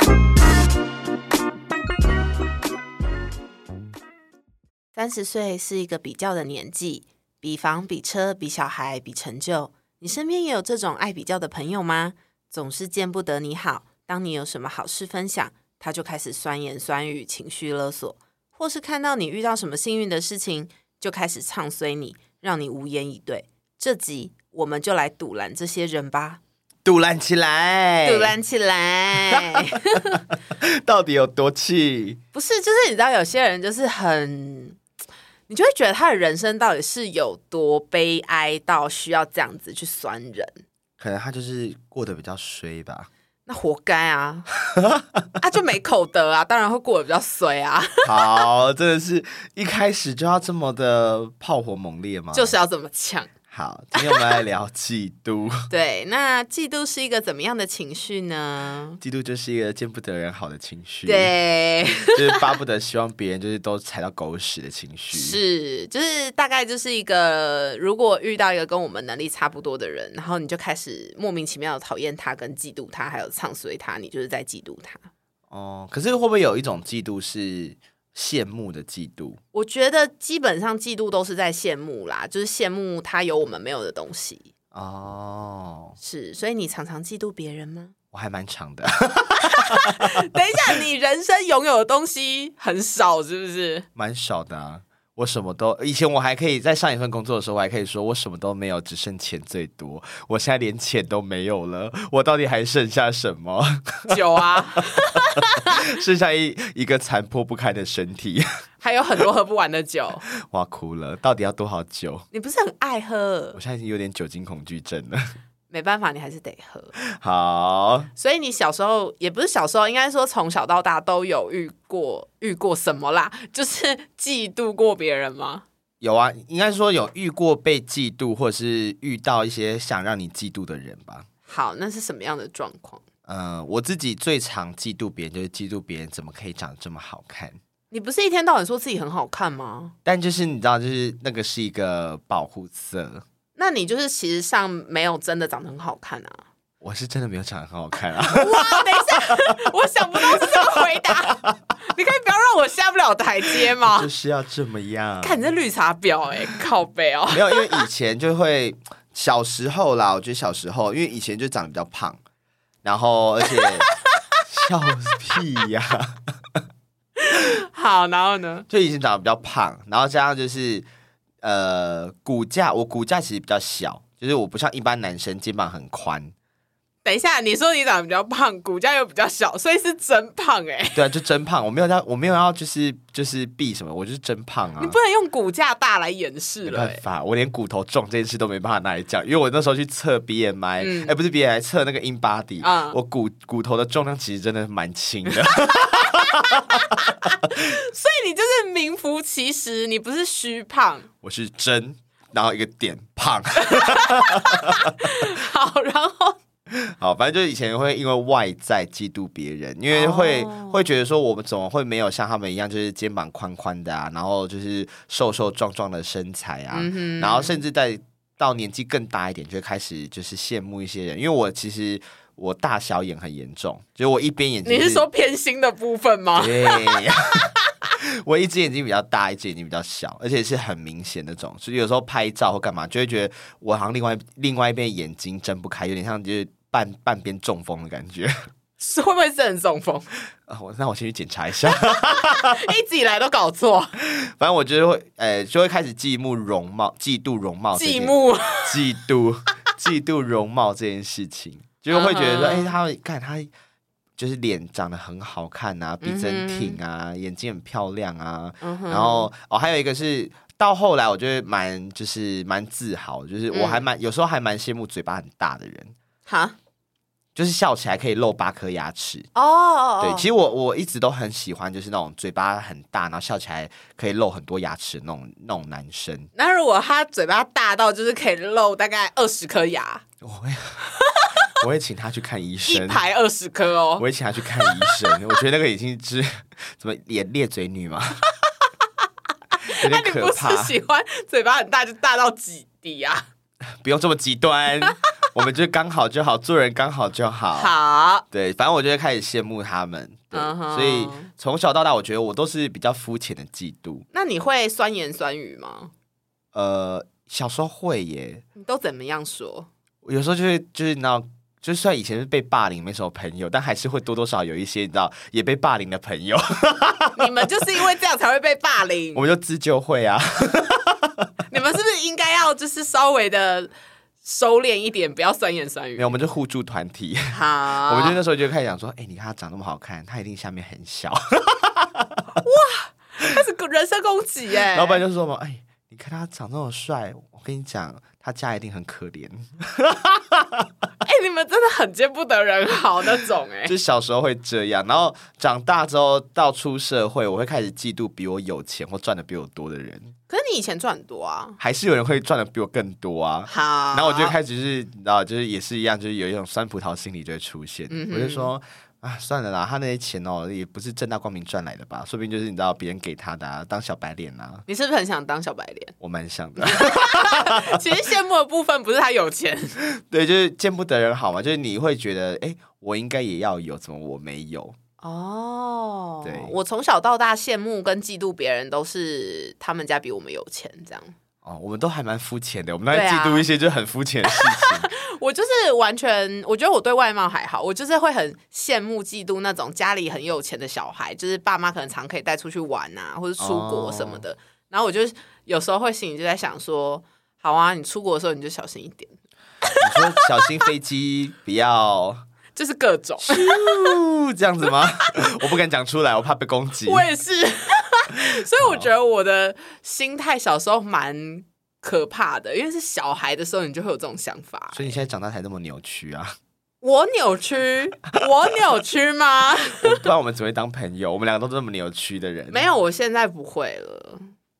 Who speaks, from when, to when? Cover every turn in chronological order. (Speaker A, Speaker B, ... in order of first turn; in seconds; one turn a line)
Speaker A: 5.0-26.4
Speaker B: 26.9-28.3
Speaker A: 28.1-30.2
Speaker B: 29.2-32.2
Speaker A: 32.3-34.8
Speaker A: 35.5-40.5
Speaker B: 41.0-43.1
Speaker A: 43.5-44.5
Speaker B: 44.7-45.0
Speaker A: 45.4-48.5
Speaker B: 48.0-52.5
Speaker A: 52.3-53.3
Speaker B: 53.5-55.7
Speaker A: 54.0-54.4
Speaker A: 55.7-59.0
Speaker B: 59.0-61.3
Speaker A: 61.1-62.4
Speaker B: 62.0-65.4
Speaker A: 65.1-75.1
Speaker B: 75.5-79.4
Speaker A: 79.5-84.5
Speaker B: 84.7-86.0
Speaker A: 86.0-87.9
Speaker B: 88.1-90.3
Speaker A: 89.5-93.9
Speaker B: 94.0-108.5
Speaker A: 104.1-105.8
Speaker A: 108.8-110.2
Speaker B: 110.3-112.3
Speaker A: 112.3-113.6
Speaker B: 113.5-115.4
Speaker A: 115.7-116.9
Speaker B: 117.0-118.1
Speaker A: 118.2-125.7
Speaker B: 126.0-131.3
Speaker A: 131.5-133.0
Speaker B: 133.3-137.6
Speaker A: 137.9-139.9
Speaker B: 140.1-143.2
Speaker A: 143.6-146.4
Speaker B: 146.8-149.6
Speaker A: 148.2-154.1
Speaker B: 150.2-151.6
Speaker B: 153.5-155.4
Speaker A: 155.2-157.8
Speaker B: 157.3-162.2
Speaker B: 162.8-163.9
Speaker B: 164.5-166.6
Speaker A: 167.2-168.7
Speaker B: 168.7-170.9
Speaker B: 171.4-176.3
Speaker A: 177.1-181.0
Speaker B: 180.9-185.0
Speaker A: 184.8-187.0
Speaker B: 186.7-197.6
Speaker A: 190.8-191.2
Speaker A: 192.6-193.0
Speaker A: 195.7-201.1
Speaker B: 201.2-205.3
Speaker A: 203.7-206.4
Speaker B: 206.7-225.1
Speaker A: 209.9-210.8
Speaker A: 216.7-217.6
Speaker A: 224.7-227.6
Speaker B: 226.4-238.3
Speaker A: 238.8-240.1
Speaker B: 240.5-242.6
Speaker A: 241.7-243.9
Speaker B: 244.0-253.5
Speaker A: 247.7-248.8
Speaker A: 251.9-252.7
Speaker B: 254.2-265.9
Speaker A: 256.0-256.8
Speaker A: 258.6-259.3
Speaker A: 263.5-263.8
Speaker A: 266.3-266.6
Speaker B: 267.4-269.3
Speaker A: 269.4-270.3
Speaker B: 270.0-276.3
Speaker A: 276.4-280.0
Speaker B: 280.2-280.8
Speaker A: 280.9-281.4
Speaker B: 281.4-283.0
Speaker A: 282.7-284.1
Speaker B: 284.0-288.2
Speaker A: 284.6-285.1
Speaker A: 288.5-289.1
Speaker B: 289.6-290.8
Speaker A: 289.6-293.3
Speaker B: 293.8-297.7
Speaker A: 297.6-298.3
Speaker B: 298.3-304.1
Speaker A: 300.3-301.3
Speaker A: 304.1-305.9
Speaker B: 306.5-308.4
Speaker A: 308.6-309.7
Speaker B: 310.0-317.5
Speaker A: 317.2-319.2
Speaker B: 319.1-321.3
Speaker A: 321.5-323.7
Speaker A: 324.2-326.1
Speaker B: 326.0-332.2
Speaker A: 327.3-328.2
Speaker A: 332.4-335.0
Speaker B: 334.7-340.7
Speaker A: 341.0-343.7
Speaker B: 343.6-350.1
Speaker A: 350.3-351.6
Speaker B: 351.6-364.7
Speaker A: 353.5-354.4
Speaker A: 357.9-358.5
Speaker A: 364.7-365.9
Speaker B: 366.0-367.9
Speaker A: 366.6-369.8
Speaker B: 370.0-374.8
Speaker A: 375.0-381.1
Speaker B: 376.2-376.6
Speaker B: 381.4-384.9
Speaker A: 382.9-383.5
Speaker A: 384.3-400.2
Speaker B: 393.4-394.2
Speaker B: 399.8-402.2
Speaker A: 402.6-404.0
Speaker B: 403.3-407.1
Speaker A: 406.8-414.9
Speaker B: 408.2-408.9
Speaker B: 414.7-416.4
Speaker A: 416.8-420.0
Speaker B: 419.7-422.6
Speaker A: 422.5-424.3